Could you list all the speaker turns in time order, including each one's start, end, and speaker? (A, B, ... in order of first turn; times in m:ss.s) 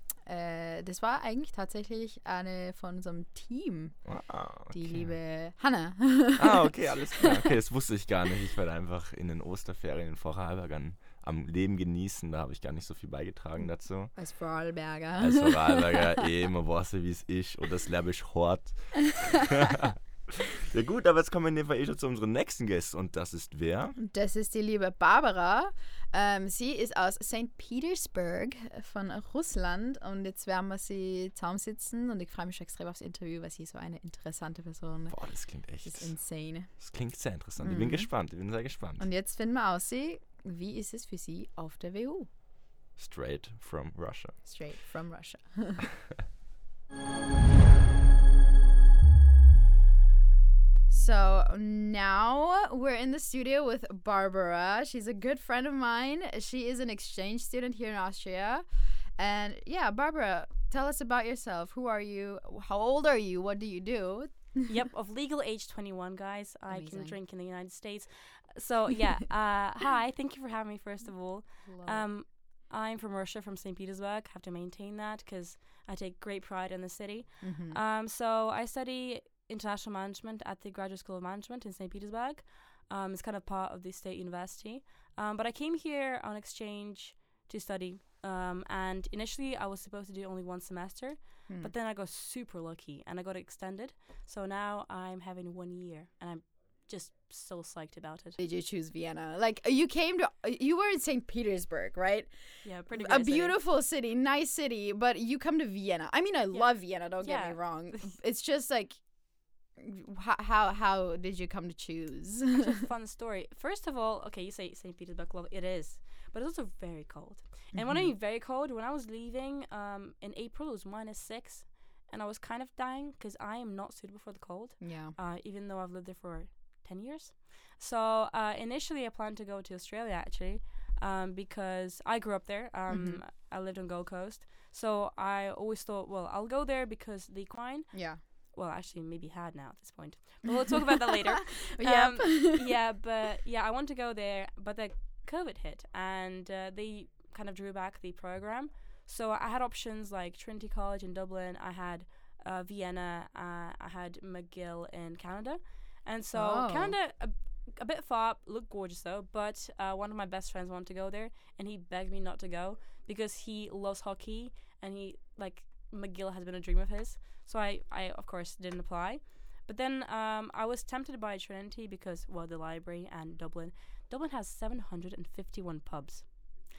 0:00.3-0:04.0 A
0:04.0-0:05.1 B
0:04.7-0:07.4 A
0:06.4-0:14.2 B
0:14.2-0:16.2 A
0:15.2-0:24.0 B
0:24.0-0:35.2 A
0:35.1-0:36.2 B
0:35.8-0:36.7 A
0:36.8-0:39.1 B
0:37.6-0:38.1 A
0:39.0-0:42.3 A
0:43.0-0:44.4 B
0:44.4-0:45.9 A
0:50.9-0:58.6 A
0:59.2-1:04.6 A
1:04.7-1:38.4 C
1:06.7-1:07.2 A
1:11.6-1:12.1 A
1:17.4-1:17.8 A
1:38.4-1:52.7 A
1:42.6-1:43.6 C
1:46.5-1:48.1 C
1:52.6-2:56.3 C
1:57.7-1:58.1 A
2:04.8-2:05.1 A
2:12.9-2:13.2 A
2:17.9-2:18.2 A
2:21.8-2:22.7 A
2:36.3-2:37.0 A